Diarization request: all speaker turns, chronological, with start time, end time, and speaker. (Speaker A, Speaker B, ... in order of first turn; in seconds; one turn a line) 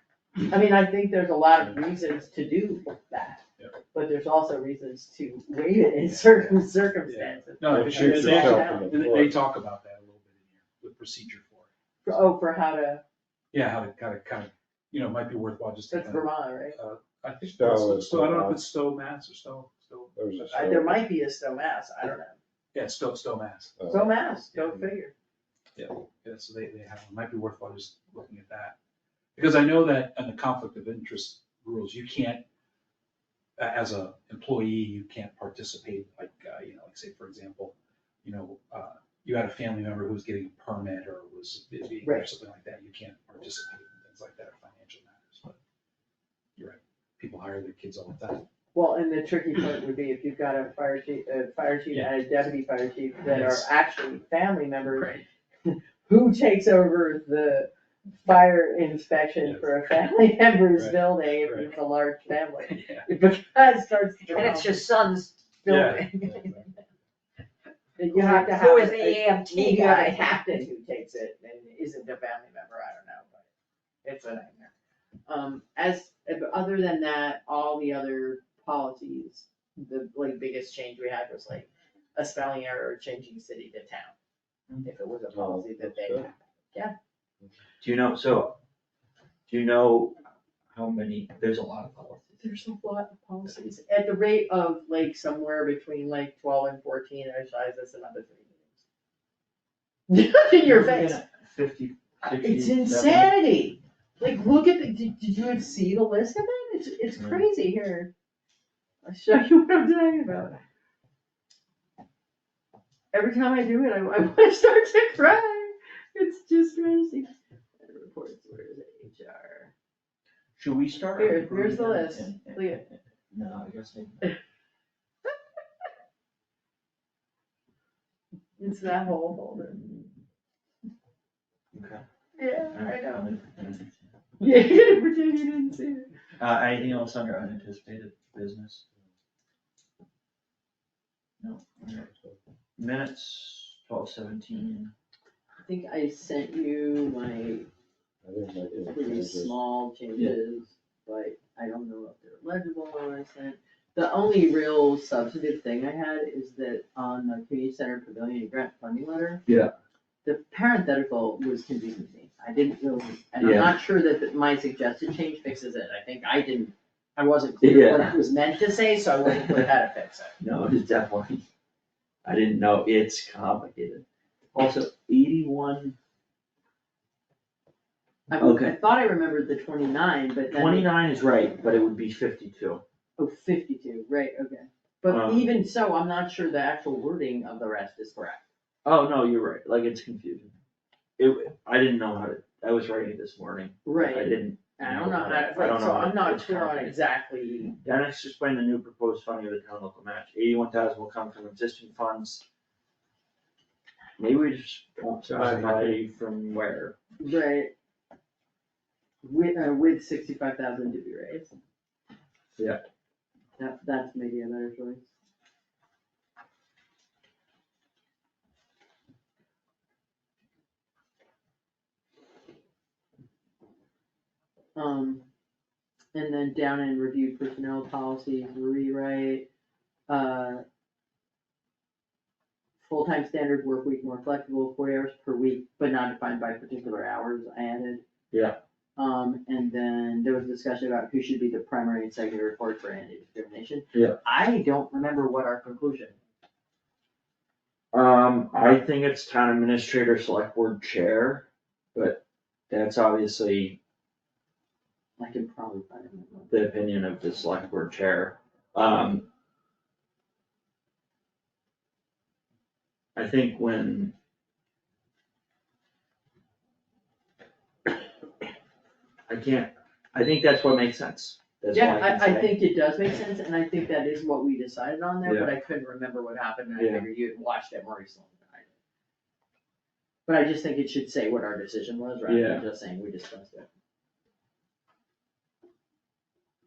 Speaker A: 0.5-3.4
Speaker A: 3.9-8.9
Speaker B: 6.0-12.2
Speaker C: 7.7-9.4
Speaker A: 12.0-13.0
Speaker B: 13.5-20.6
Speaker A: 15.9-16.8
Speaker C: 17.4-18.6
Speaker C: 20.1-21.0
Speaker A: 20.5-22.4
Speaker B: 22.7-23.8
Speaker C: 23.8-24.2
Speaker A: 23.9-25.1
Speaker B: 25.8-28.8
Speaker B: 29.4-32.4
Speaker B: 33.6-45.6
Speaker A: 42.0-42.3
Speaker B: 46.6-48.5
Speaker A: 48.7-57.7
Speaker B: 53.3-53.7
Speaker B: 54.9-55.2
Speaker A: 58.2-64.9
Speaker B: 60.8-61.7
Speaker B: 62.6-63.1
Speaker D: 64.3-65.4
Speaker A: 65.7-66.5
Speaker B: 65.7-66.6
Speaker A: 68.0-73.5
Speaker D: 68.3-70.3
Speaker A: 74.0-74.7
Speaker A: 75.3-84.2
Speaker A: 84.8-87.0
Speaker C: 85.3-86.3
Speaker E: 87.8-88.6
Speaker E: 89.5-90.2
Speaker E: 90.7-92.4
Speaker A: 92.4-98.7
Speaker A: 100.1-101.2
Speaker E: 100.6-103.4
Speaker A: 102.3-108.1
Speaker E: 107.2-107.5
Speaker A: 109.0-110.6
Speaker A: 113.1-119.7
Speaker E: 120.6-124.3
Speaker A: 121.2-122.8
Speaker A: 128.6-129.9
Speaker E: 131.7-132.0
Speaker A: 132.4-133.3
Speaker E: 132.7-134.0
Speaker A: 134.4-136.1
Speaker E: 136.4-138.8
Speaker E: 141.4-142.1
Speaker C: 142.0-142.4
Speaker E: 142.8-144.9
Speaker A: 145.6-147.7
Speaker C: 148.2-149.6
Speaker A: 148.9-159.4
Speaker E: 159.5-159.7
Speaker A: 160.2-170.3
Speaker E: 163.4-163.8
Speaker E: 167.6-168.2
Speaker E: 170.4-171.4
Speaker E: 172.2-176.0
Speaker A: 178.3-180.9
Speaker E: 178.4-178.8
Speaker E: 180.5-182.8
Speaker A: 183.2-188.4
Speaker E: 185.1-185.5
Speaker E: 188.8-190.5
Speaker E: 191.2-197.0
Speaker A: 193.8-197.8
Speaker E: 197.8-202.4
Speaker E: 204.2-207.0
Speaker C: 205.3-206.0
Speaker A: 207.2-207.7
Speaker A: 209.2-211.5
Speaker E: 212.6-212.8
Speaker A: 213.6-215.1
Speaker A: 224.8-225.2
Speaker A: 226.1-229.5
Speaker A: 230.1-230.6
Speaker A: 232.8-238.0
Speaker E: 238.3-238.6
Speaker A: 239.0-246.2
Speaker E: 243.9-244.2
Speaker E: 247.9-253.8
Speaker A: 255.2-256.5
Speaker E: 256.5-259.3
Speaker E: 263.2-264.1
Speaker E: 269.3-272.6
Speaker A: 271.7-278.7
Speaker E: 275.2-275.5
Speaker E: 276.8-277.1
Speaker A: 280.3-283.7
Speaker E: 282.3-282.7